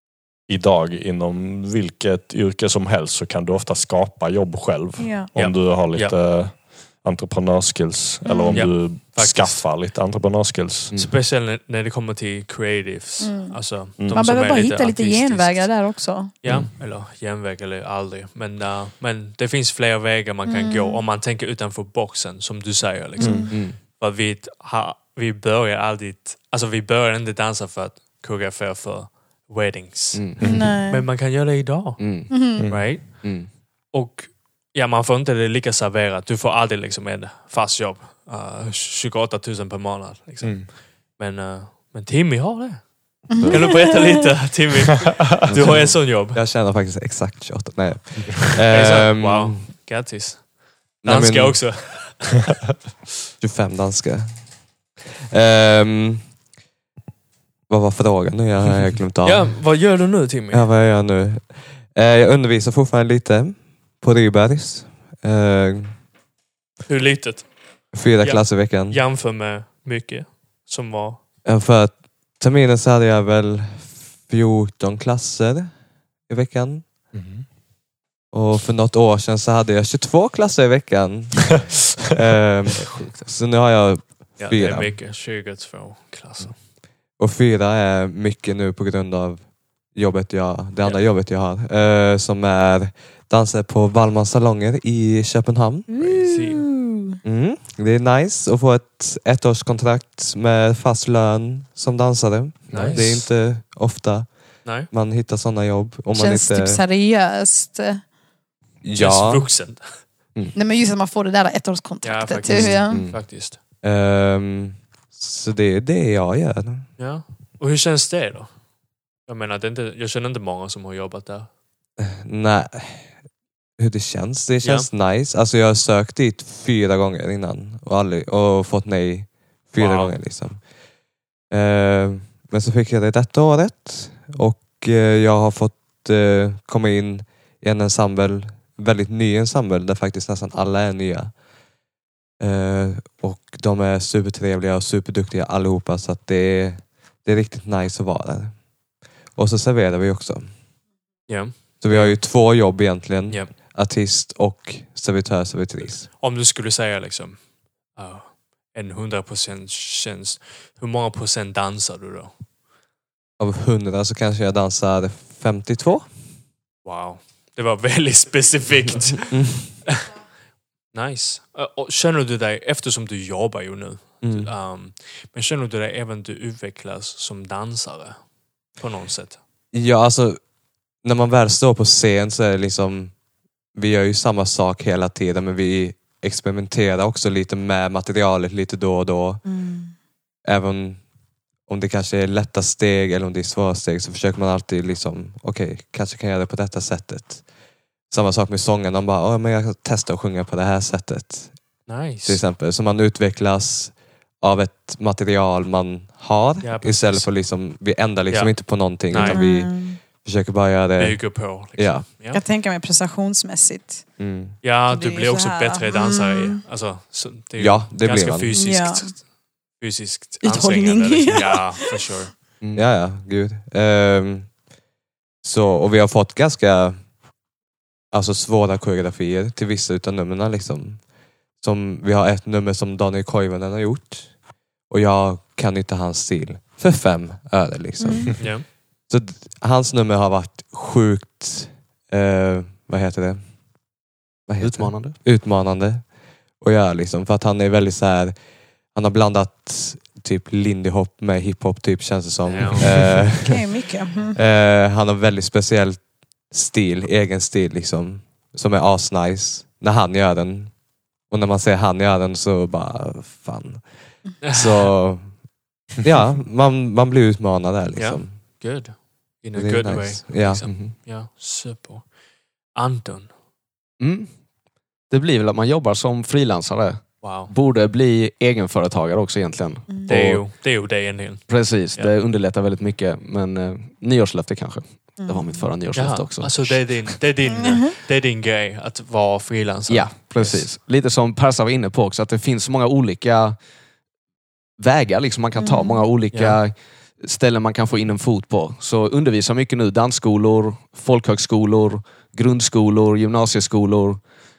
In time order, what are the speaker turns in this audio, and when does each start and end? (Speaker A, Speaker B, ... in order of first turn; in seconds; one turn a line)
Speaker A: 0.5-10.9
Speaker B: 5.0-5.3
Speaker C: 5.3-6.2
Speaker B: 8.2-8.7
Speaker C: 8.5-9.7
Speaker C: 10.9-15.8
Speaker B: 13.2-16.3
Speaker A: 14.0-14.3
Speaker C: 16.4-33.2
Speaker B: 20.4-21.0
Speaker B: 23.2-23.5
Speaker A: 23.2-23.5
Speaker D: 23.5-23.8
Speaker D: 30.1-30.6
Speaker A: 30.4-30.7
Speaker B: 30.4-31.1
Speaker D: 32.0-32.5
Speaker B: 32.3-32.7
Speaker A: 32.6-32.9
Speaker D: 33.0-33.5
Speaker C: 33.9-46.4
Speaker A: 40.4-40.7
Speaker B: 43.3-44.1
Speaker D: 45.5-45.9
Speaker E: 45.6-49.7
Speaker C: 48.7-52.5
Speaker E: 51.0-51.8
Speaker E: 53.4-54.4
Speaker E: 55.3-56.2
Speaker E: 57.7-59.8
Speaker C: 59.2-60.7
Speaker E: 60.5-66.0
Speaker C: 66.9-71.2
Speaker E: 67.9-69.0
Speaker E: 71.4-75.7
Speaker E: 76.3-76.8
Speaker A: 77.1-77.4
Speaker E: 78.3-85.0
Speaker D: 82.9-83.3
Speaker C: 84.4-86.6
Speaker E: 87.2-95.9
Speaker C: 90.8-91.0
Speaker B: 95.9-97.1
Speaker C: 96.0-96.7
Speaker E: 97.2-106.8
Speaker D: 102.7-103.1
Speaker C: 102.7-103.3
Speaker C: 104.6-104.9
Speaker B: 106.1-108.0
Speaker E: 108.8-109.5
Speaker C: 108.9-110.0
Speaker B: 110.5-113.0
Speaker C: 112.0-113.6
Speaker D: 112.5-113.2
Speaker E: 113.8-116.9
Speaker C: 117.0-118.5
Speaker C: 119.3-121.5
Speaker E: 122.0-123.1
Speaker E: 123.8-130.6
Speaker C: 124.6-124.9
Speaker C: 129.8-130.2
Speaker E: 131.5-141.3
Speaker E: 142.4-148.6
Speaker E: 149.3-150.5
Speaker C: 151.3-152.2
Speaker E: 151.8-156.1
Speaker C: 156.1-162.4
Speaker E: 163.4-166.1
Speaker C: 166.8-170.1
Speaker E: 169.3-169.7
Speaker C: 170.9-179.4
Speaker E: 174.2-174.5
Speaker E: 179.7-180.4
Speaker E: 181.0-183.1
Speaker E: 183.7-189.4
Speaker B: 189.4-189.9
Speaker E: 190.4-191.0
Speaker E: 191.7-197.4
Speaker E: 198.1-201.6
Speaker C: 201.9-202.4
Speaker E: 202.2-212.1
Speaker C: 206.6-207.3
Speaker C: 208.3-209.4
Speaker B: 209.1-210.0
Speaker C: 211.0-212.4
Speaker B: 212.3-214.0
Speaker E: 214.2-214.6
Speaker C: 214.6-219.2
Speaker B: 214.9-216.6
Speaker E: 217.6-218.5
Speaker B: 218.5-219.1
Speaker C: 219.8-222.3
Speaker B: 220.4-221.9
Speaker E: 222.7-224.5
Speaker E: 225.4-227.0
Speaker E: 228.1-231.0
Speaker E: 231.6-234.3
Speaker E: 234.9-243.4
Speaker B: 238.0-238.3
Speaker C: 238.4-238.7
Speaker E: 244.5-248.3
Speaker D: 244.6-245.2
Speaker E: 248.9-265.4
Speaker C: 252.4-252.9
Speaker B: 253.4-254.3
Speaker C: 264.4-264.9
Speaker E: 266.0-268.4
Speaker C: 267.9-272.1
Speaker E: 269.5-270.8
Speaker C: 272.7-273.3
Speaker D: 274.0-274.3
Speaker D: 275.1-280.4
Speaker C: 277.2-277.5
Speaker C: 280.1-282.1
Speaker D: 281.5-287.2
Speaker B: 285.2-285.7
Speaker C: 285.9-290.7
Speaker B: 287.5-287.9
Speaker D: 289.9-293.6
Speaker D: 294.8-304.2
Speaker B: 295.6-296.0
Speaker C: 296.3-296.6